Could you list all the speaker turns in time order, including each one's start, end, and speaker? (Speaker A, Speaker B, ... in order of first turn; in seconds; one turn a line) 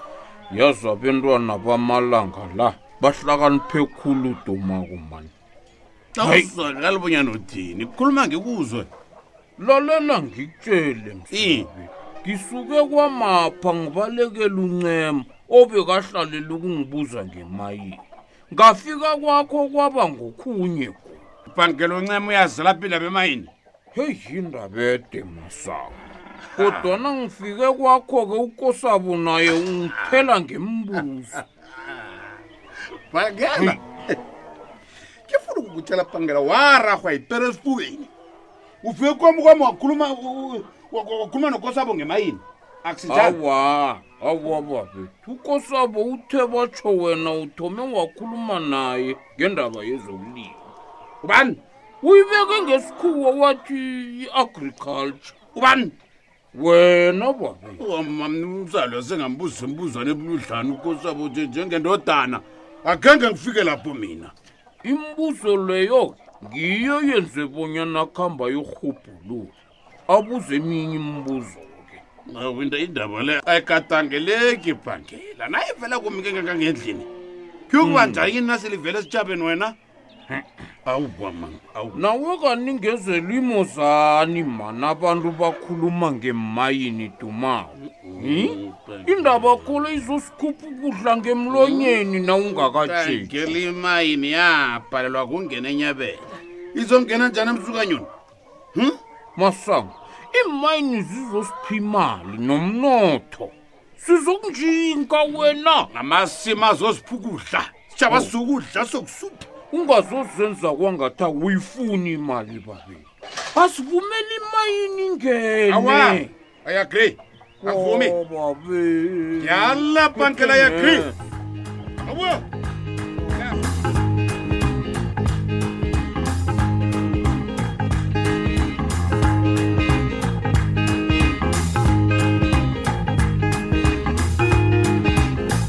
Speaker A: 0.5-5.3
Speaker A: 6.2-6.5
Speaker B: 6.2-8.9
Speaker A: 9.6-21.2
Speaker B: 11.3-11.7
Speaker B: 21.5-23.5
Speaker A: 23.9-26.0
Speaker A: 26.5-31.4
Speaker B: 33.1-34.1
Speaker B: 35.3-38.1
Speaker B: 38.8-43.4
Speaker A: 43.1-50.6
Speaker B: 51.2-51.6
Speaker A: 52.0-55.4
Speaker B: 55.5-55.9
Speaker A: 56.5-57.8
Speaker B: 57.8-64.3
Speaker A: 64.8-69.5
Speaker A: 70.1-72.0
Speaker B: 72.4-77.1
Speaker B: 77.7-79.7
Speaker A: 77.8-78.3
Speaker B: 80.9-82.0
Speaker A: 81.9-93.6
Speaker B: 92.9-96.2
Speaker B: 96.7-98.1
Speaker A: 99.3-105.9
Speaker B: 105.9-109.4
Speaker A: 109.7-116.3
Speaker B: 115.7-118.2
Speaker A: 117.6-121.2
Speaker B: 119.4-121.1
Speaker B: 122.0-122.4
Speaker B: 123.3-123.6